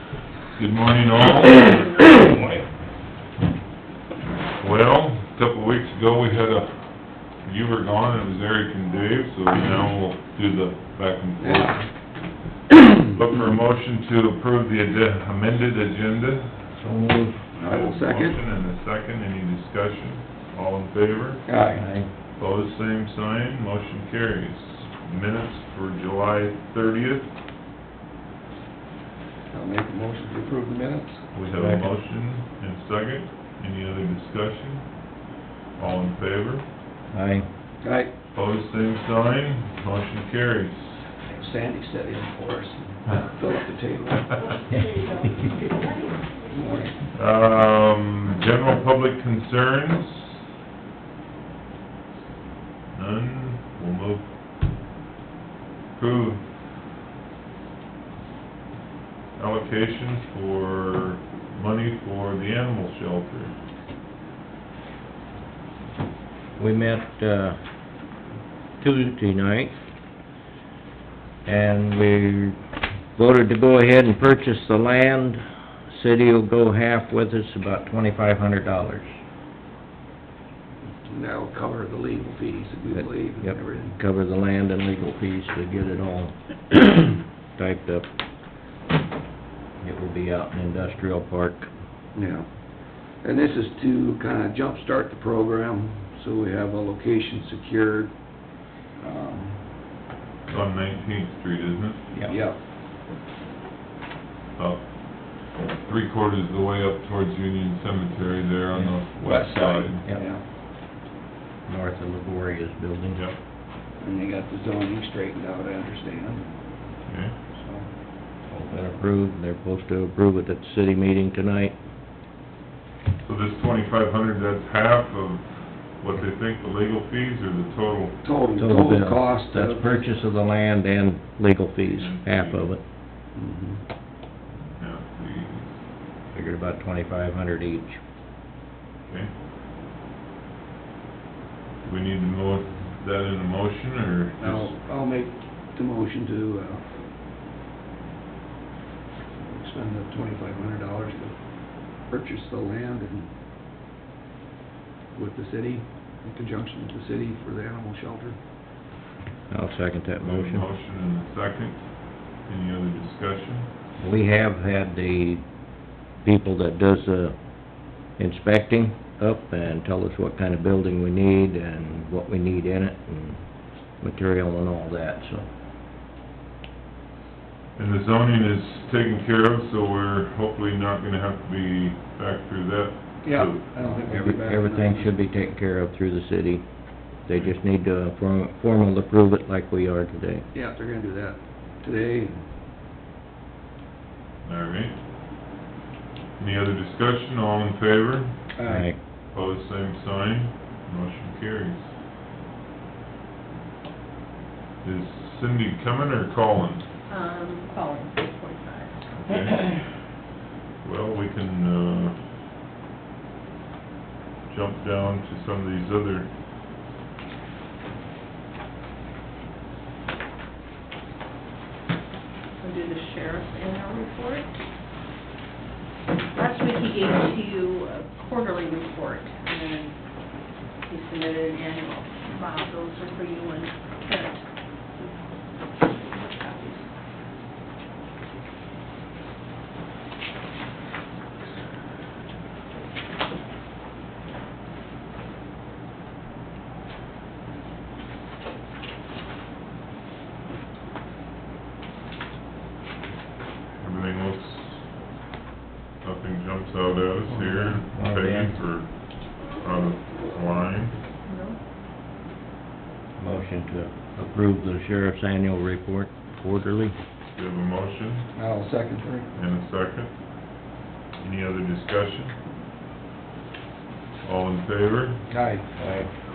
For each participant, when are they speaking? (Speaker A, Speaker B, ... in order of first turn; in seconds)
Speaker A: 0.5-1.8, 4.5-11.8, 13.1-16.8, 17.6-21.5, 22.4-27.3, 31.3-35.0, 35.8-36.7, 38.3-41.1, 47.1-50.4, 52.9-54.3, 56.0-56.4, 59.4-63.5, 100.5-102.0, 104.5-110.0, 113.1-113.4, 117.0-117.4, 123.2-128.2, 131.9-132.7, 134.8-135.7, 139.1-139.3, 141.8-144.8, 160.2-161.8, 162.4-163.7, 177.8-183.7, 187.3-187.6, 194.4-195.0, 196.4-198.4, 199.3-201.9, 204.8-206.8, 209.2-209.6, 210.8-212.2, 214.5-216.3, 253.8-254.8, 256.0-261.0, 267.3-268.3, 269.3-270.1, 271.2-272.3, 274.2-275.3
Speaker B: 1.5-2.6, 16.8-17.4, 21.7-22.1, 31.5-31.9, 37.1-37.5, 44.8-45.1, 66.6-67.6, 68.8-69.8, 71.4-72.6, 73.1-79.1, 82.9-88.1, 89.8-91.7, 102.1-102.4, 111.7-113.2, 118.5-121.8, 128.6-132.8, 136.3-138.0, 159.5-160.7, 164.0-165.4, 166.2-167.4, 168.2-173.4, 174.0-175.5, 183.8-186.7, 187.2-190.4, 198.7-199.0, 257.3-258.5, 263.2-266.9, 275.8-276.1
Speaker C: 1.7-2.0, 207.1-209.7, 222.6-224.5, 226.3-230.0, 230.8-234.4, 234.9-236.9, 261.2-261.6
Speaker D: 11.4-11.9, 17.6-18.4, 21.4-21.8, 29.5-31.3, 37.8-38.1, 41.2-44.4, 46.5-47.0, 81.0-84.0, 92.1-98.2, 99.0-99.7, 102.3-102.6, 109.2-110.4, 114.0-116.5, 117.5-117.9, 128.2-130.1, 133.3-133.8, 144.4-146.9, 149.4-151.4, 152.1-153.3, 155.1-158.4, 183.2-185.4, 190.5-192.3, 198.6-198.9, 268.4-269.4, 275.3-275.7